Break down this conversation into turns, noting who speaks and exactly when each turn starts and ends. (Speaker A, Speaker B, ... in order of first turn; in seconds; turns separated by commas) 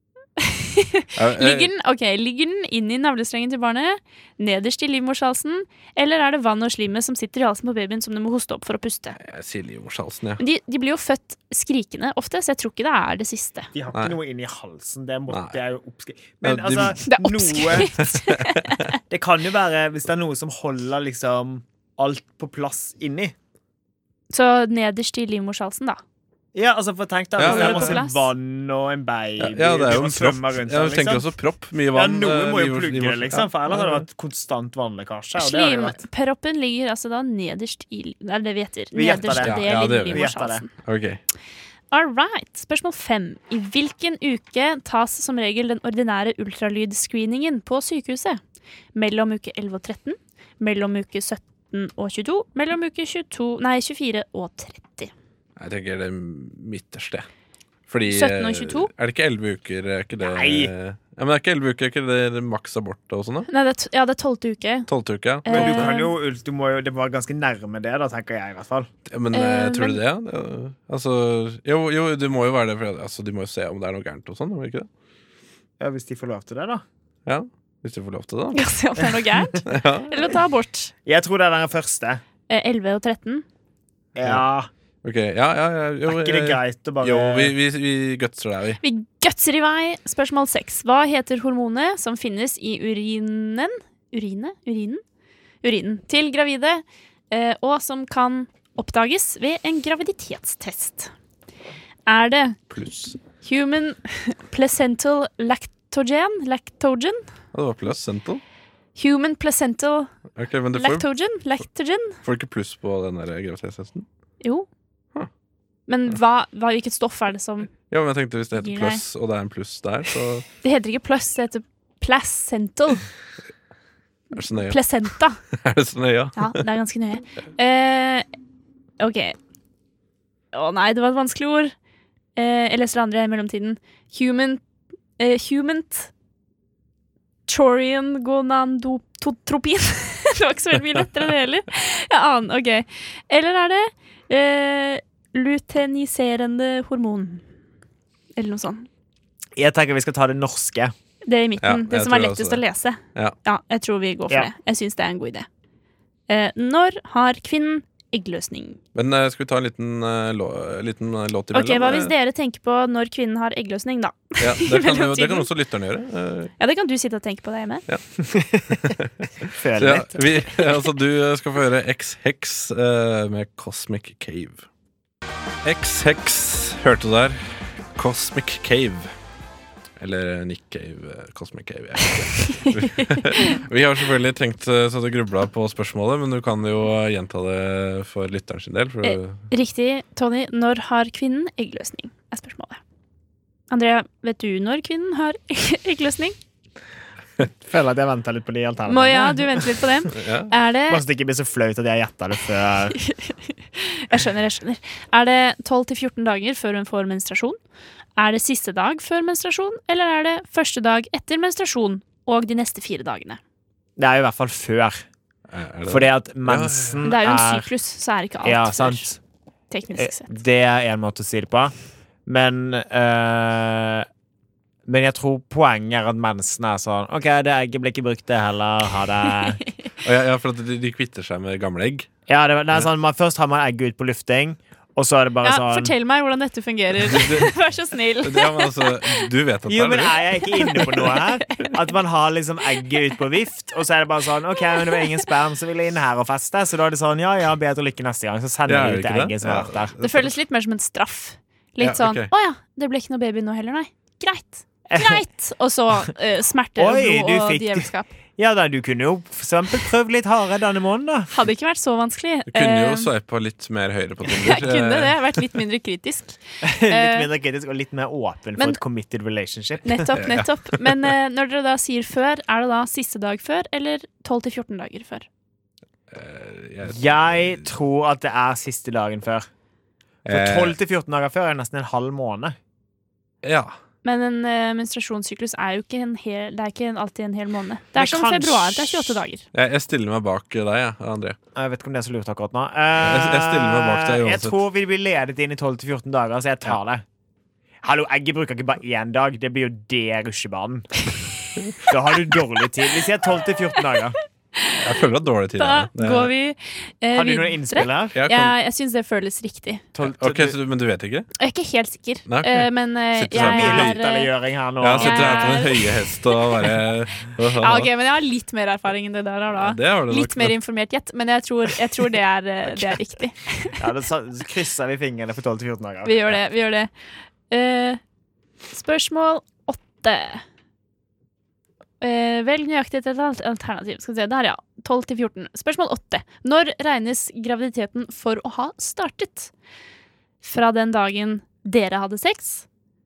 Speaker A: 0.4-9.2, Speaker B: 1.2-1.7, Speaker B: 9.2-10.4, Speaker A: 10.4-13.7, Speaker C: 13.7-18.0, Speaker B: 15.3-15.6, Speaker B: 16.4-17.0, Speaker A: 17.1-18.9, Speaker B: 18.0-18.6, Speaker C: 19.1-23.3, Speaker A: 24.3-26.0, Speaker C: 26.6-31.3, Speaker B: 27.4-28.0, Speaker A: 27.4-28.3, Speaker B: 29.4-34.0, Speaker C: 31.9-36.0, Speaker A: 35.4-40.7, Speaker C: 38.9-40.6, Speaker B: 39.3-41.2, Speaker A: 41.9-48.4, Speaker A: 49.0-55.1, Speaker B: 55.6-57.3, Speaker B: 57.9-63.5, Speaker A: 58.0-58.9, Speaker C: 60.2-60.7, Speaker A: 63.5-64.9, Speaker B: 64.9-65.9, Speaker A: 65.4-66.1, Speaker C: 65.5-68.9, Speaker B: 69.1-74.9, Speaker A: 69.3-70.0, Speaker C: 75.8-76.8, Speaker B: 77.3-78.6, Speaker A: 78.5-80.9, Speaker B: 79.7-80.3, Speaker C: 81.0-82.2, Speaker A: 82.5-83.5, Speaker C: 84.2-84.7, Speaker B: 85.0-88.8, Speaker C: 86.1-87.5, Speaker A: 88.8-95.0, Speaker A: 95.6-101.1, Speaker A: 102.1-102.6, Speaker B: 102.7-103.2, Speaker A: 103.4-107.2, Speaker B: 107.5-108.4, Speaker A: 109.0-110.1, Speaker B: 110.4-111.1, Speaker A: 110.7-112.2, Speaker B: 112.2-114.1, Speaker A: 114.4-114.7, Speaker A: 115.9-117.7, Speaker B: 117.9-120.5, Speaker A: 118.5-119.0, Speaker A: 120.6-123.0, Speaker B: 124.3-124.8, Speaker A: 124.6-125.4, Speaker B: 125.5-126.6, Speaker A: 126.4-128.3, Speaker A: 129.0-129.4, Speaker A: 130.5-131.7, Speaker A: 132.4-134.6, Speaker A: 135.2-136.1, Speaker A: 137.5-147.4, Speaker A: 148.4-148.9, Speaker C: 149.6-150.9, Speaker A: 151.2-155.5, Speaker B: 151.6-152.6, Speaker A: 156.3-158.8, Speaker B: 158.9-162.1, Speaker A: 161.5-165.5, Speaker B: 164.4-166.5, Speaker A: 166.6-167.8, Speaker C: 168.2-170.6, Speaker B: 168.7-174.7, Speaker B: 175.6-179.1, Speaker B: 180.0-189.4, Speaker A: 182.4-183.6, Speaker A: 189.0-192.8, Speaker A: 193.7-196.4, Speaker C: 197.5-199.8, Speaker A: 198.9-201.0, Speaker B: 200.1-200.5, Speaker C: 200.9-203.0, Speaker A: 202.9-207.6, Speaker A: 208.2-213.4, Speaker C: 214.0-215.1, Speaker B: 215.5-217.1, Speaker C: 215.9-217.7, Speaker A: 217.0-219.1, Speaker C: 218.4-219.2, Speaker A: 219.7-220.3, Speaker C: 220.0-221.7, Speaker C: 222.3-224.1, Speaker C: 224.9-229.7, Speaker B: 230.0-232.1, Speaker C: 232.3-235.9, Speaker A: 235.4-239.3, Speaker B: 237.0-237.5, Speaker B: 238.2-240.2, Speaker C: 239.7-249.9, Speaker A: 240.6-241.8, Speaker A: 244.8-245.1, Speaker B: 248.7-250.3, Speaker A: 250.0-258.1, Speaker B: 251.8-252.3, Speaker C: 254.9-255.2, Speaker C: 256.8-261.3, Speaker A: 261.3-263.1, Speaker B: 262.5-265.2, Speaker A: 264.3-267.3, Speaker C: 266.6-270.2, Speaker A: 269.9-275.3, Speaker B: 270.2-270.5, Speaker B: 276.1-277.7, Speaker C: 276.9-279.5, Speaker B: 280.2-280.8, Speaker C: 280.3-282.6, Speaker B: 283.4-283.8, Speaker A: 284.0-289.4, Speaker C: 287.9-289.2, Speaker B: 289.5-291.4, Speaker C: 291.6-297.0, Speaker B: 293.0-294.6, Speaker C: 297.8-301.1, Speaker C: 301.8-304.2, Speaker A: 304.6-304.9, Speaker B: 304.8-306.3, Speaker A: 305.6-309.9, Speaker C: 307.1-308.2, Speaker B: 308.1-308.5, Speaker C: 309.9-310.6, Speaker B: 310.0-311.3, Speaker A: 311.4-314.3, Speaker B: 312.3-314.0, Speaker C: 313.3-315.8, Speaker B: 314.8-317.9, Speaker A: 315.0-315.9, Speaker A: 317.5-323.8, Speaker B: 319.6-320.6, Speaker C: 323.8-326.4, Speaker A: 326.1-326.9, Speaker A: 327.5-328.0, Speaker A: 328.7-330.4, Speaker A: 332.0-339.5, Speaker A: 340.4-342.7